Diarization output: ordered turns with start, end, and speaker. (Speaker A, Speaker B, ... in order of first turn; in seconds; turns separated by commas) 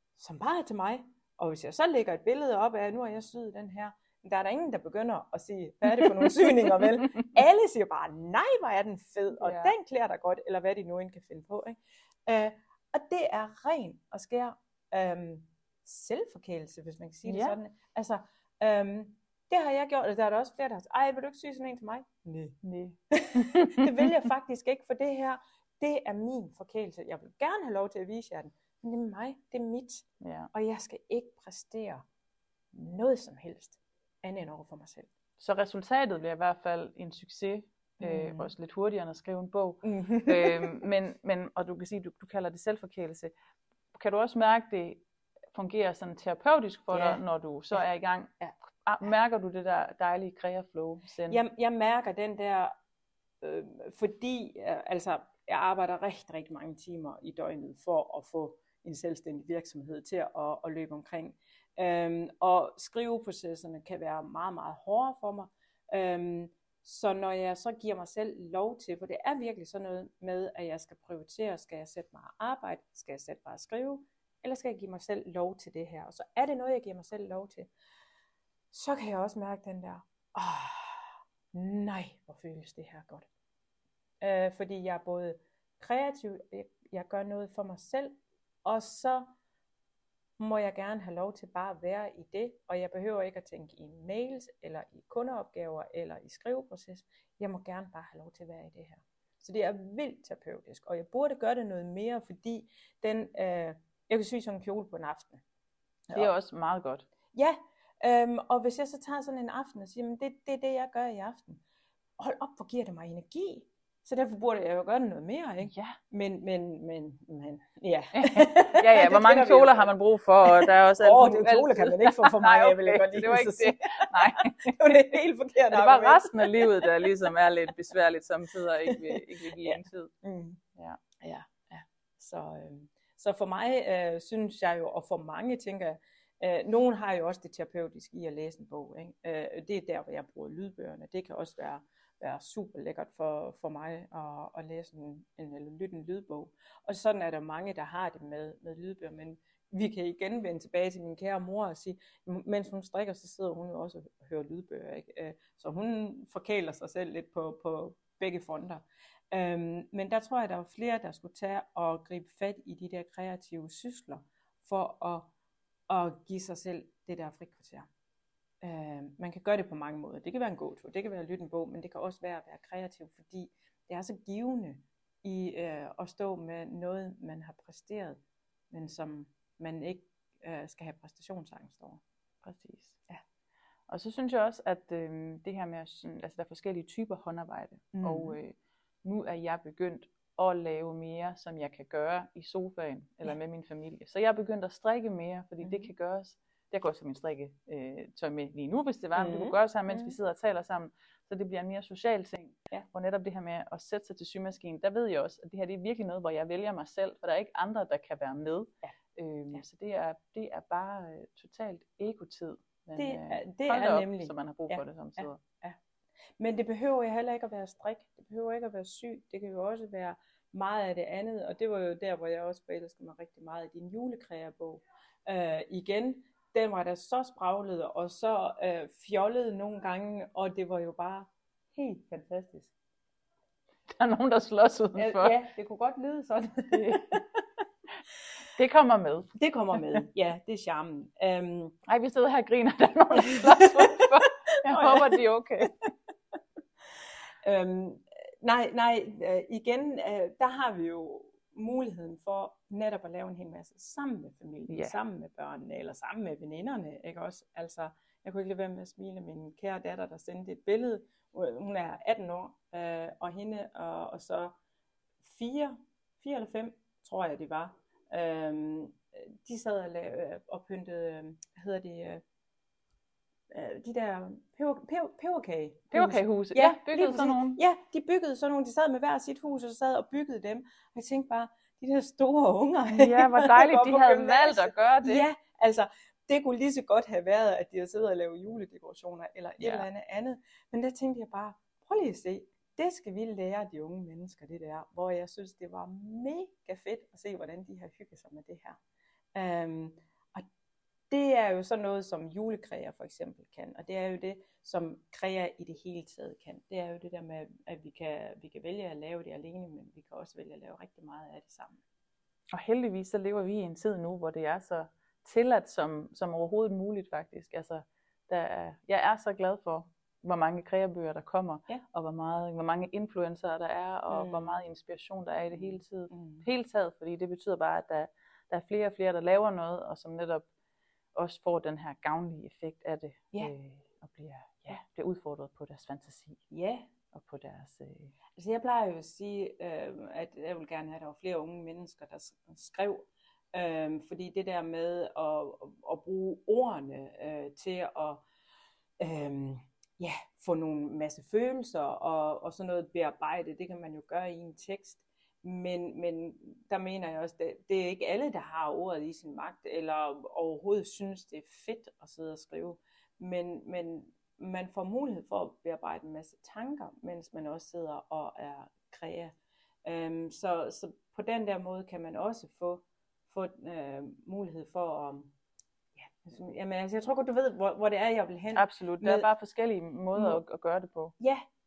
Speaker A: 0.2-32.0, Speaker B: 9.4-9.7, Speaker B: 17.2-17.6, Speaker B: 22.6-24.1, Speaker B: 30.2-30.5, Speaker A: 32.7-35.1, Speaker B: 35.4-43.3, Speaker A: 38.0-38.5, Speaker A: 39.8-40.8, Speaker B: 43.9-51.4, Speaker A: 46.9-47.2, Speaker A: 51.3-52.7, Speaker A: 53.4-77.7, Speaker A: 78.7-83.3, Speaker A: 84.2-89.3, Speaker A: 90.4-105.4, Speaker B: 106.1-107.1, Speaker A: 107.3-111.6, Speaker A: 112.2-119.9, Speaker B: 115.6-116.0, Speaker B: 118.1-124.8, Speaker A: 120.5-127.2, Speaker B: 125.7-130.1, Speaker A: 128.9-130.6, Speaker B: 130.8-131.0, Speaker A: 131.2-165.3, Speaker A: 165.9-167.9, Speaker A: 168.6-178.2, Speaker A: 178.7-182.0, Speaker B: 182.4-183.0, Speaker B: 183.9-215.4, Speaker A: 187.9-188.4, Speaker A: 195.6-195.9, Speaker A: 199.1-200.2, Speaker A: 213.0-215.8, Speaker A: 216.4-232.7, Speaker B: 233.9-235.4, Speaker A: 235.0-237.2, Speaker B: 236.7-237.0, Speaker B: 238.5-239.3, Speaker A: 239.4-241.8, Speaker B: 241.8-245.8, Speaker A: 243.3-245.2, Speaker A: 247.4-264.5, Speaker B: 254.7-255.0, Speaker A: 265.2-272.2, Speaker A: 273.5-298.8, Speaker B: 275.9-277.6, Speaker B: 282.9-285.3, Speaker B: 289.6-289.9, Speaker A: 299.3-300.4, Speaker A: 301.1-311.8, Speaker B: 312.5-330.5, Speaker A: 324.1-324.6, Speaker A: 325.5-326.4, Speaker B: 331.1-336.4, Speaker A: 336.5-336.9, Speaker B: 337.1-338.1, Speaker A: 338.4-348.2, Speaker A: 349.0-369.3, Speaker A: 369.9-375.3, Speaker A: 375.9-379.3, Speaker B: 378.6-381.1, Speaker A: 380.1-380.4